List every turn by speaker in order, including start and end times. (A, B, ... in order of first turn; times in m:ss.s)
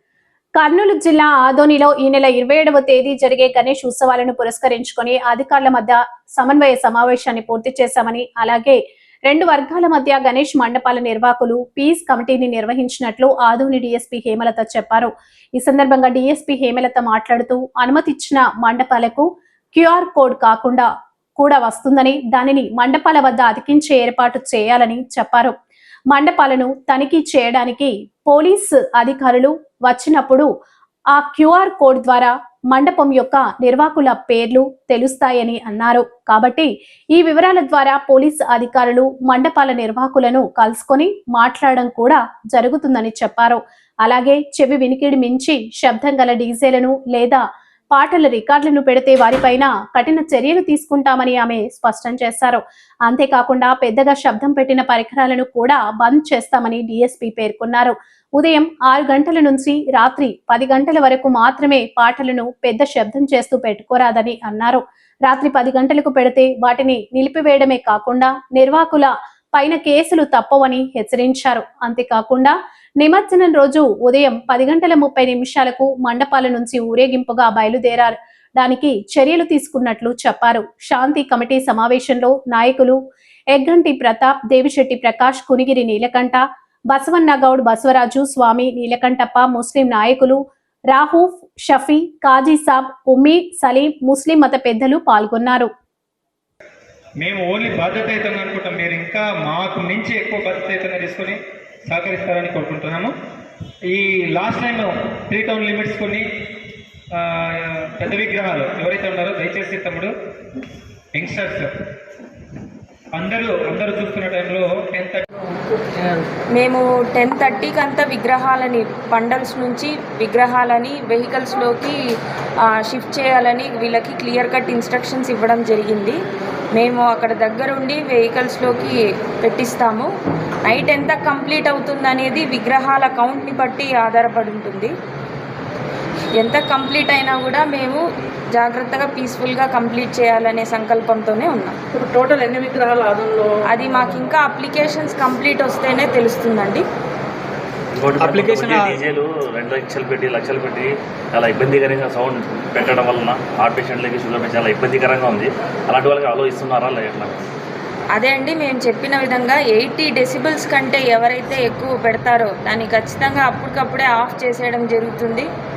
0:00.6-0:25.6 A
0:26.1-0:30.5 A
0:31.1-1:23.0 A
1:23.5-1:30.4 A
1:30.9-1:35.7 A
1:37.2-1:43.1 B
1:43.9-1:46.3 B
1:47.1-1:50.1 B
1:51.1-1:51.7 B
1:53.2-1:55.3 B
1:55.8-1:56.2 C
1:56.5-2:02.0 D
2:02.7-2:06.2 D
2:06.8-2:10.1 D
2:10.6-2:14.9 D
2:16.4-2:18.0 D
2:18.5-2:21.8 D
2:21.9-2:23.7 C
2:23.7-2:26.8 D
2:27.9-2:37.5 E
2:28.2-2:29.0 B
2:38.2-2:45.5 D